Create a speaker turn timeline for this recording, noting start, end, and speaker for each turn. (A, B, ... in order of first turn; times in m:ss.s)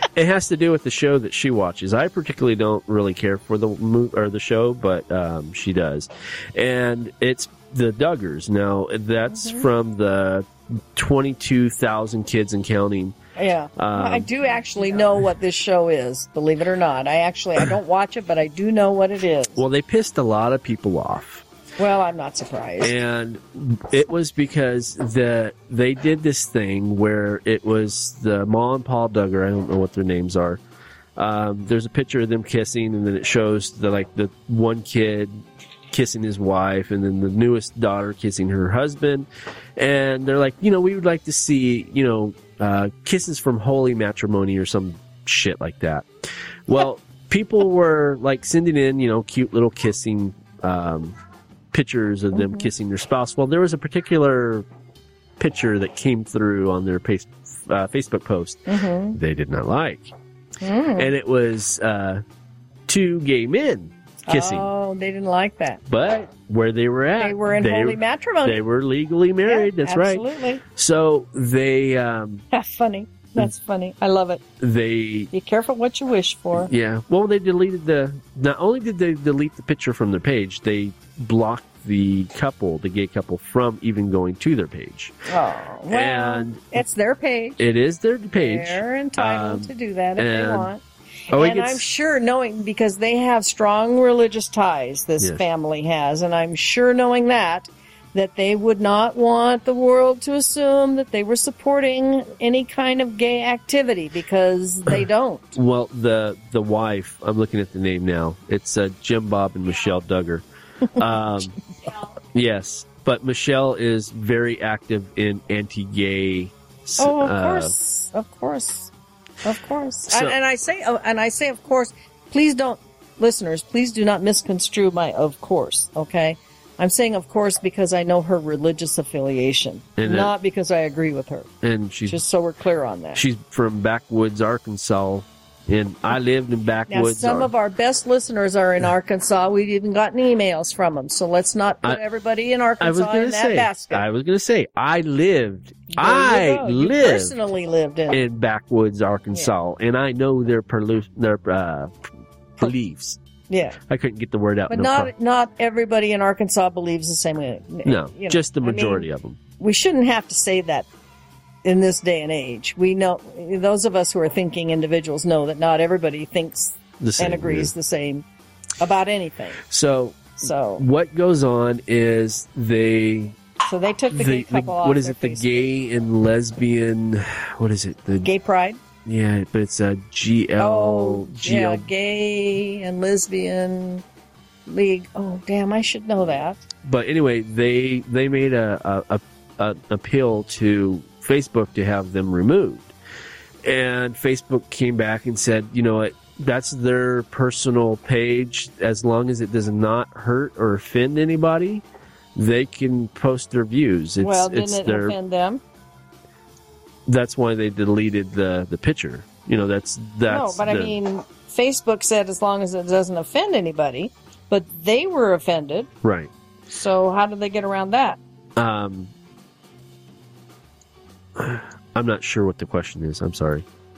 0:00.1-0:13.2 A
0:09.3-0:09.7 B
0:13.4-0:19.6 B
0:13.8-0:14.3 A
0:19.6-0:21.4 A
0:21.8-0:23.0 B
0:22.8-0:30.6 A
0:31.2-0:46.1 A
0:46.7-0:51.2 A
0:51.7-0:54.7 A
0:52.3-0:52.7 B
0:55.4-1:00.1 A
0:58.7-0:59.2 B
1:00.6-1:01.1 B
1:01.0-1:02.2 A
1:02.9-1:04.7 A
1:04.3-1:05.8 B
1:05.9-1:10.2 A
1:07.2-1:08.6 B
1:09.5-1:10.6 B
1:10.8-1:12.4 A
1:12.5-1:14.4 B
1:14.6-1:15.3 A
1:15.3-1:16.7 B
1:16.5-1:25.2 A
1:25.3-1:27.6 B
1:25.9-1:26.7 A
1:27.6-1:30.7 A
1:28.3-1:30.8 B
1:31.3-1:31.8 A
1:31.3-1:45.6 B
1:45.6-1:51.6 A
1:52.3-1:57.7 A
1:57.0-1:58.9 B
1:59.4-2:11.5 B
2:00.1-2:00.4 A
2:10.0-2:10.3 A
2:11.6-2:12.2 A
2:12.1-2:13.2 B
2:13.1-2:17.5 A
2:16.9-2:24.0 B
2:22.8-2:27.3 A
2:25.9-2:28.2 B
2:28.1-2:32.0 A
2:32.6-2:33.2 A
2:33.5-2:33.8 B
2:33.9-2:35.1 A
2:34.7-2:39.1 B
2:37.8-2:39.4 A
2:39.6-2:40.9 B
2:41.6-2:48.2 B
2:47.0-2:47.7 A
2:48.8-2:49.6 B
2:49.7-2:53.4 A
2:50.4-2:50.9 B
2:53.7-2:55.7 B
2:54.1-2:58.3 A
2:58.2-2:58.8 B
2:59.0-3:01.9 A
3:00.6-3:04.0 B
3:04.7-3:06.6 B
3:06.8-3:12.9 A
3:13.6-3:21.8 A
3:22.3-3:25.2 A
3:24.2-3:25.6 B
3:27.0-3:31.0 A
3:30.3-3:35.9 B
3:36.0-3:36.3 A
3:36.7-3:38.2 B
3:38.6-3:39.1 A
3:41.4-3:43.6 A